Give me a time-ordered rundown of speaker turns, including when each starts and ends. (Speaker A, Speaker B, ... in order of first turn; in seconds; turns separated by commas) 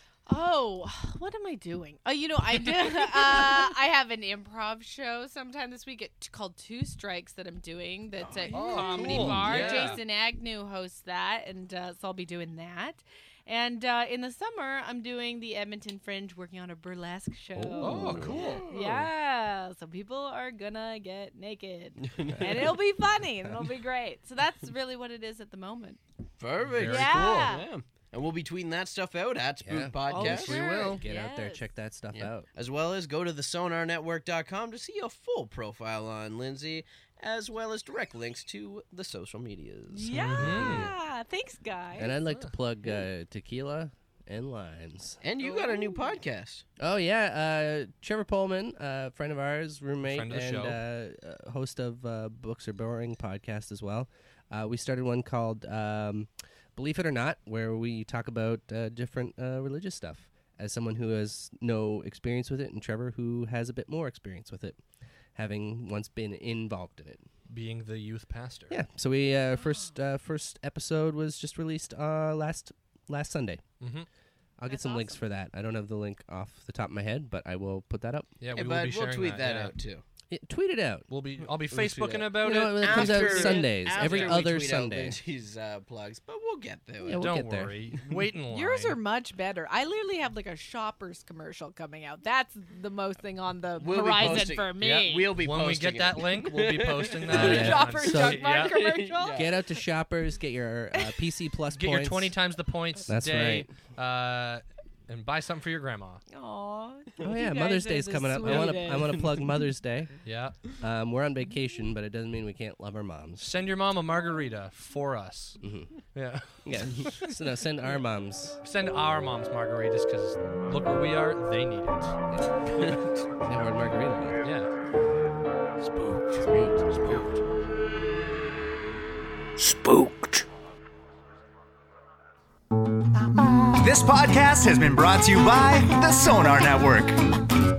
Speaker A: 0.3-18.0, Speaker B: 8.2-9.9, Speaker C: 8.5-10.0, Speaker D: 9.3-9.8, Speaker D: 17.6-18.6, Speaker C: 17.8-18.7, Speaker B: 18.1-19.1, Speaker A: 18.7-26.0, Speaker B: 22.0-22.8, Speaker B: 26.4-30.6, Speaker C: 26.6-27.5, Speaker A: 26.8-27.6, Speaker D: 29.6-30.1, Speaker A: 30.1-31.7, Speaker C: 30.1-31.0, Speaker D: 30.6-32.5, Speaker B: 32.1-40.6, Speaker A: 39.9-42.1, Speaker C: 40.2-40.9, Speaker D: 40.3-40.9, Speaker D: 42.0-45.2, Speaker C: 42.1-42.5, Speaker B: 45.2-46.6, Speaker A: 45.4-46.1, Speaker D: 46.8-64.8, Speaker C: 50.0-50.8, Speaker D: 65.4-67.2, Speaker C: 67.5-68.8, Speaker D: 68.7-73.6, Speaker C: 73.8-74.1, Speaker D: 74.6-78.3, Speaker A: 74.7-75.2, Speaker C: 78.4-79.7, Speaker B: 78.5-80.0, Speaker D: 80.3-81.0, Speaker C: 81.1-84.5, Speaker B: 81.7-87.3, Speaker D: 82.4-85.2, Speaker D: 87.0-87.7, Speaker C: 87.2-89.0, Speaker A: 88.5-95.3, Speaker B: 93.8-97.6, Speaker C: 95.4-98.8, Speaker D: 97.3-98.6, Speaker A: 97.5-99.5, Speaker B: 98.6-99.5, Speaker D: 99.3-102.3, Speaker C: 101.7-106.2, Speaker D: 103.1-103.7, Speaker A: 106.3-109.6, Speaker D: 107.2-110.1, Speaker C: 108.4-108.8, Speaker C: 110.2-110.6, Speaker D: 110.7-113.5, Speaker C: 113.4-115.6, Speaker D: 115.6-115.9, Speaker C: 116.1-117.4, Speaker D: 116.6-118.6, Speaker C: 118.6-122.2, Speaker B: 122.7-123.3, Speaker D: 123.4-124.4, Speaker C: 124.4-124.7, Speaker B: 125.8-127.3, Speaker D: 126.4-127.2, Speaker E: 129.6-130.4, Speaker E: 133.1-137.2